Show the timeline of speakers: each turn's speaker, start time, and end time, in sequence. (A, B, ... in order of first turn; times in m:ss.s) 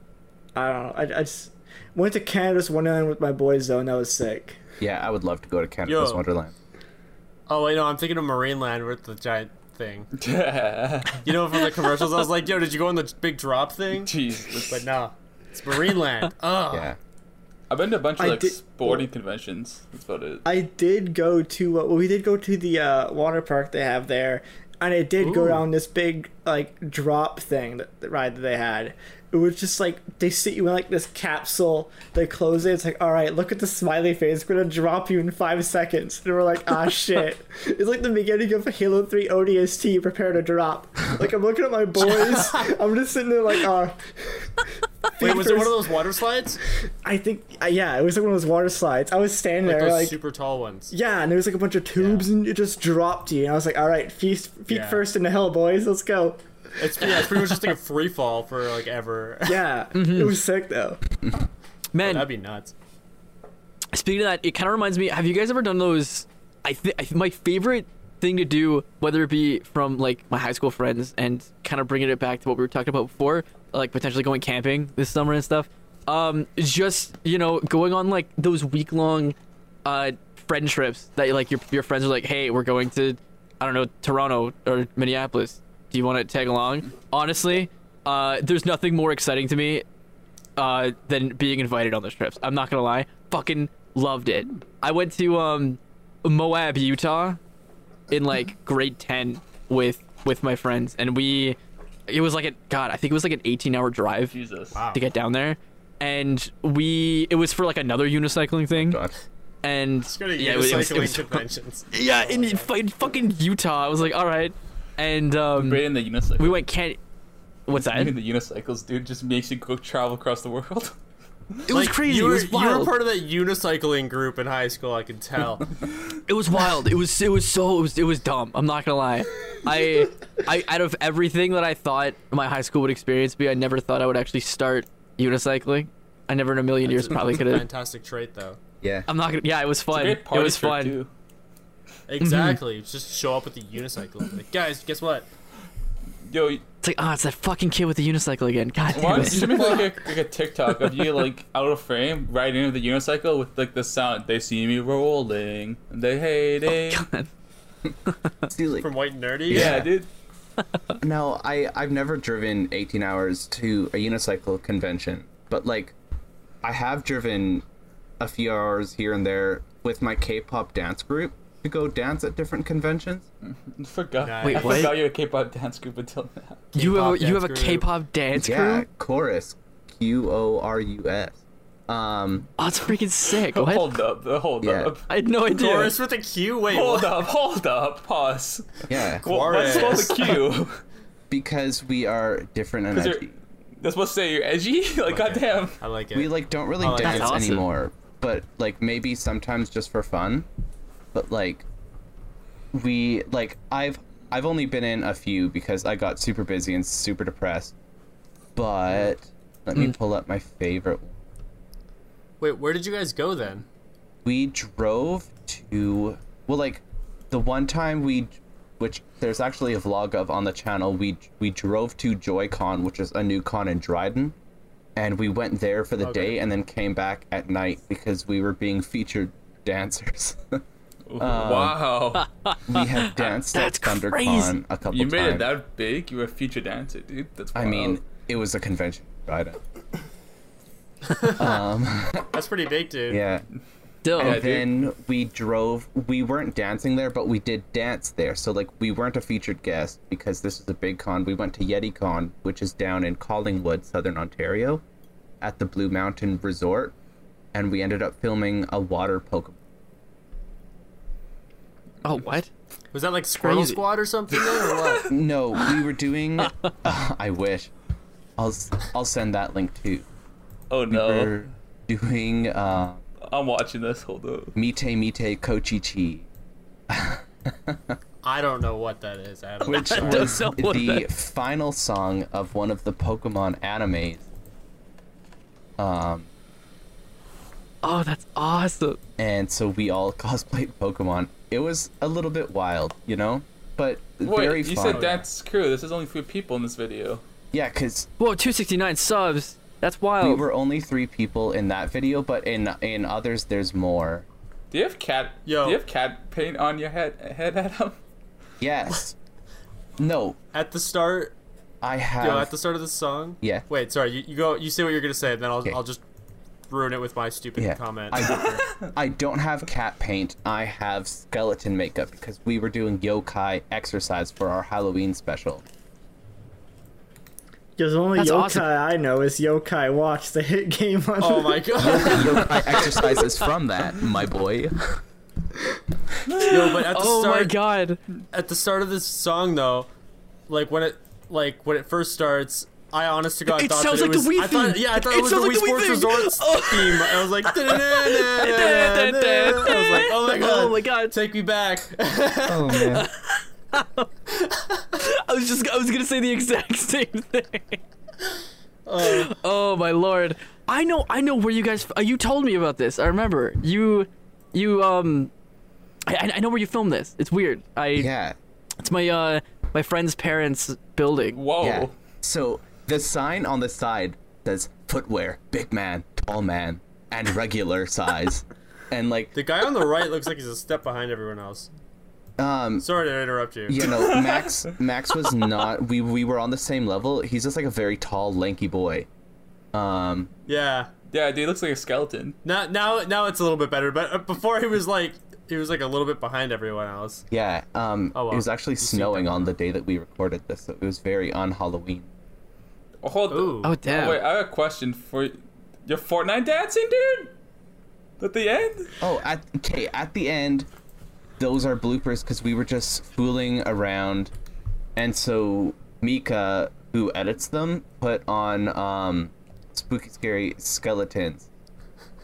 0:00.5-0:04.6 A
0:04.8-0:06.5 B
0:05.8-0:06.2 C
0:07.5-0:10.1 C
0:10.2-0:11.3 D
0:11.2-0:14.1 C
0:14.0-0:14.8 D
0:14.7-0:16.9 C
0:16.7-0:17.0 B
0:17.7-0:20.4 D
0:18.2-0:19.1 A
0:20.4-0:44.5 A
0:25.2-0:25.6 C
0:42.0-0:42.7 C
0:45.2-0:45.9 A
0:45.2-0:46.6 C
0:47.0-0:50.2 A
0:49.6-0:50.9 C
0:50.9-0:56.4 A
0:52.0-0:52.3 C
0:54.7-0:55.0 C
0:56.8-0:59.6 C
0:59.5-1:01.0 A
0:59.9-1:00.3 E
1:01.9-1:02.3 E
1:02.0-1:02.7 C
1:03.9-1:29.8 E
1:30.6-1:37.4 E
1:38.1-1:44.3 E
1:44.3-1:44.8 D
1:44.7-1:45.0 C
1:44.9-1:49.0 E
1:48.7-1:49.1 B
1:49.6-1:51.4 E
1:50.0-1:52.7 C
1:51.9-1:55.8 E
1:55.5-1:56.6 D
1:56.4-1:57.0 E
1:57.7-1:58.1 E
1:57.7-2:01.0 D
2:01.7-2:03.0 E
2:01.7-2:05.7 C
2:06.3-2:17.6 E
2:16.8-2:18.6 C
2:18.8-2:19.1 B
2:19.1-2:21.0 E
2:19.9-2:21.1 D
2:22.1-2:25.3 C
2:22.2-2:22.6 E
2:26.2-2:26.6 D
2:26.8-2:29.8 E
2:28.9-2:37.0 D
2:29.3-2:29.8 C
2:36.7-2:37.3 E
2:38.5-2:38.9 B
2:38.8-2:39.8 C
2:39.5-2:39.9 B
2:39.5-2:40.1 D
2:41.0-2:45.9 B
2:46.6-2:47.6 B
2:48.2-2:53.2 B
2:53.4-2:56.6 D
2:54.2-2:55.0 C
2:54.4-2:55.0 E
2:56.7-2:57.9 C
2:56.7-2:58.8 E
2:58.3-3:02.5 B
3:02.6-3:04.0 E
3:03.5-3:05.1 D
3:04.6-3:04.9 B
3:05.1-3:06.0 E
3:05.5-3:07.2 C
3:06.7-3:10.8 D
3:08.9-3:09.5 B
3:09.2-3:10.4 C
3:11.3-3:13.3 B
3:12.9-3:13.3 D
3:13.8-3:15.8 D
3:15.1-3:17.4 C
3:16.1-3:20.5 B
3:16.9-3:17.6 E
3:21.1-3:21.6 B
3:22.7-3:27.7 B
3:28.5-3:31.1 B
3:32.4-3:33.6 C
3:34.2-3:44.4 B
3:45.0-3:50.6 B
3:46.0-3:46.4 C
3:51.1-3:52.3 D
3:51.2-3:51.8 B
3:52.4-3:54.6 E
3:52.7-3:55.5 B
3:54.9-3:58.0 D
3:57.5-3:59.6 B
4:01.1-4:01.4 C
4:01.3-4:02.3 B
4:02.3-4:03.2 C
4:03.1-4:03.4 B
4:04.0-4:04.4 E
4:04.2-4:04.7 D
4:04.2-4:14.8 B
4:15.4-4:16.9 B
4:17.5-4:19.6 B
4:22.0-4:22.5 E
4:22.9-4:25.1 C
4:23.4-4:23.8 E
4:25.1-4:27.7 B
4:28.4-4:30.0 B
4:30.7-4:31.5 D
4:30.9-4:33.0 B
4:33.2-4:34.5 D
4:34.5-4:36.3 B
4:36.9-4:38.0 B
4:38.2-4:40.5 C
4:39.6-4:44.2 B
4:39.6-4:41.1 E
4:45.8-4:46.3 B
4:47.8-4:49.0 E
4:49.2-4:55.2 B
4:54.2-4:57.2 D
4:54.9-4:55.2 C
4:57.5-4:58.1 B
4:58.2-5:00.4 E
5:00.2-5:04.2 B
5:04.7-5:08.0 D
5:05.4-5:05.8 C
5:08.6-5:09.1 B
5:10.0-5:10.4 B
5:10.5-5:11.3 C
5:11.8-5:12.5 B
5:12.2-5:16.0 C
5:16.7-5:18.6 C
5:17.6-5:25.6 B
5:18.2-5:18.8 D
5:27.8-5:32.0 A
5:28.2-5:28.7 E
5:31.2-5:32.8 C
5:31.8-5:35.0 B
5:32.9-5:33.3 E
5:36.3-5:36.6 D
5:36.4-5:38.0 E
5:36.4-5:37.6 C
5:38.3-5:39.9 C
5:40.5-5:52.9 C
5:43.5-5:51.2 E
5:52.4-5:53.1 B
5:53.0-5:54.1 E
5:54.9-5:57.8 E
5:58.8-5:59.3 C
5:59.0-6:05.3 E
6:06.1-6:08.1 E
6:07.9-6:08.4 B
6:08.8-6:11.4 E
6:11.3-6:11.9 D
6:11.6-6:19.3 B
6:19.3-6:21.7 C
6:22.4-6:22.8 B
6:22.8-6:23.8 C
6:23.7-6:29.1 B
6:24.0-6:24.6 D
6:29.7-6:30.3 B
6:30.5-6:30.9 C
6:31.1-6:32.4 D
6:32.4-6:37.2 C
6:37.3-6:42.1 B
6:38.1-6:39.5 C
6:43.0-6:47.3 D
6:43.3-6:43.8 C
6:43.6-6:44.2 E
6:48.2-6:48.9 D
6:49.0-6:50.7 B
6:51.4-6:54.3 B
6:55.0-7:01.5 B